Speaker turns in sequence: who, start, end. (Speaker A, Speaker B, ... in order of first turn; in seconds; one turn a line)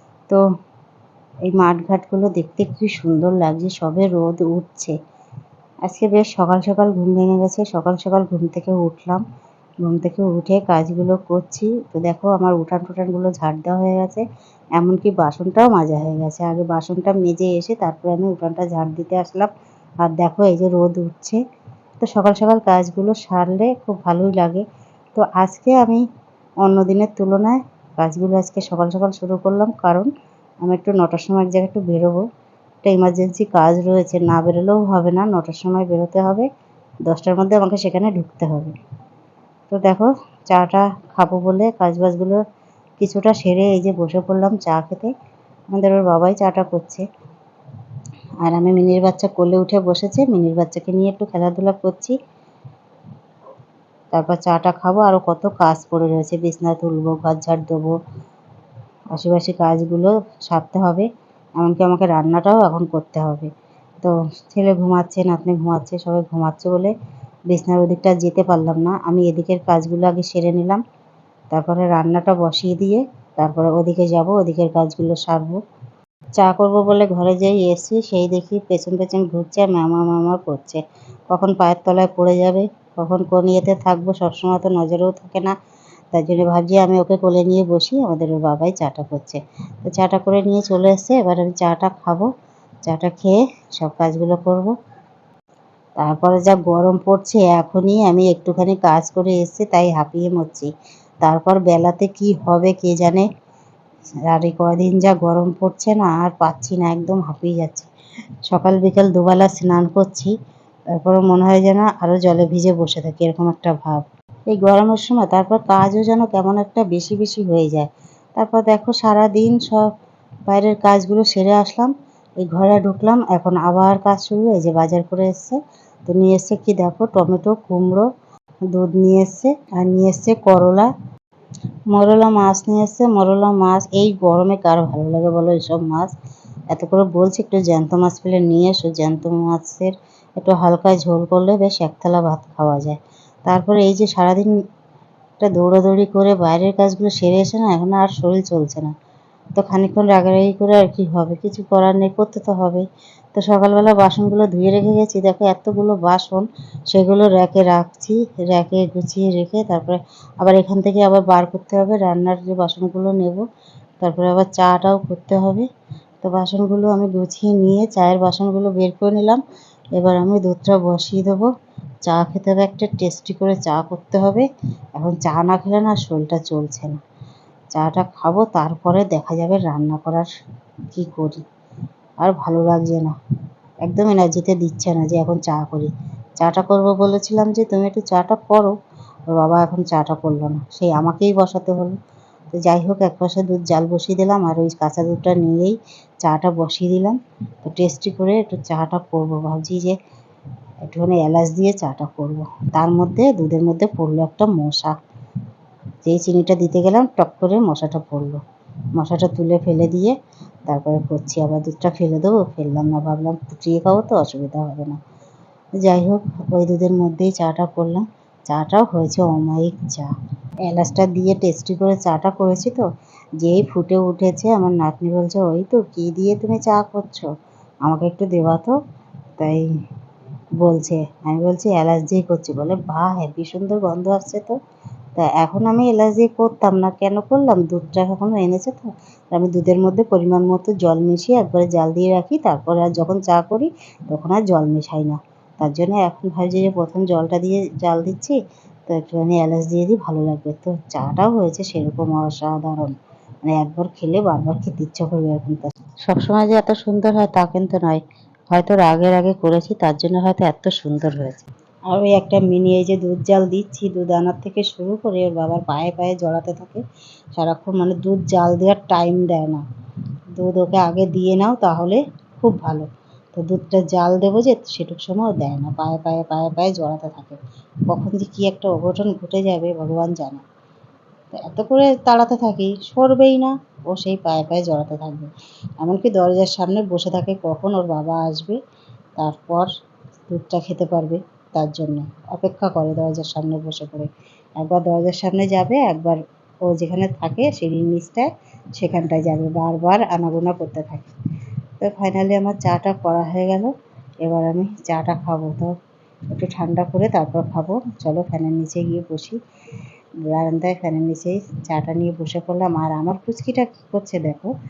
Speaker A: 1.5-5.0
Speaker A: 5.8-9.2
Speaker A: 9.8-14.2
Speaker A: 14.8-19.5
Speaker A: 20.0-21.4
Speaker A: 22.0-24.6
Speaker A: 25.1-26.0
Speaker A: 26.6-30.1
Speaker A: 30.6-32.2
Speaker A: 32.8-36.5
Speaker A: 37.1-38.7
Speaker A: 39.7-42.4
Speaker A: 43.0-45.1
Speaker A: 45.7-47.0
Speaker A: 48.4-52.2
Speaker A: 54.1-58.0
Speaker A: 59.1-61.1
Speaker A: 61.6-63.5
Speaker A: 64.0-66.9
Speaker A: 67.5-70.8
Speaker A: 71.5-75.6
Speaker A: 76.4-85.5
Speaker A: 86.1-92.3
Speaker A: 92.8-94.7
Speaker A: 96.0-100.7
Speaker A: 101.2-103.3
Speaker A: 104.3-107.9
Speaker A: 108.5-110.3
Speaker A: 111.0-119.9
Speaker A: 120.5-128.1
Speaker A: 128.7-130.9
Speaker A: 131.9-136.1
Speaker A: 136.7-144.5
Speaker A: 145.4-148.9
Speaker A: 149.6-152.8
Speaker A: 153.3-163.4
Speaker A: 164.0-165.7
Speaker A: 166.2-169.4
Speaker A: 170.0-171.5
Speaker A: 172.1-174.5
Speaker A: 175.0-177.0
Speaker A: 177.7-180.3
Speaker A: 180.9-181.4
Speaker A: 182.2-183.1
Speaker A: 183.8-188.7
Speaker A: 189.3-192.0
Speaker A: 192.6-199.9
Speaker A: 200.8-204.9
Speaker A: 206.0-208.4
Speaker A: 209.0-210.2
Speaker A: 210.7-215.0
Speaker A: 215.8-220.1
Speaker A: 220.7-222.8
Speaker A: 223.4-227.3
Speaker A: 227.8-228.7
Speaker A: 229.4-229.7
Speaker A: 230.6-234.6
Speaker A: 235.2-252.9
Speaker A: 253.4-266.8
Speaker A: 267.4-269.6
Speaker A: 270.4-280.4
Speaker A: 281.3-288.6
Speaker A: 289.2-289.7
Speaker A: 290.3-301.1
Speaker A: 301.8-303.7
Speaker A: 304.2-305.7
Speaker A: 306.4-309.4
Speaker A: 310.3-314.5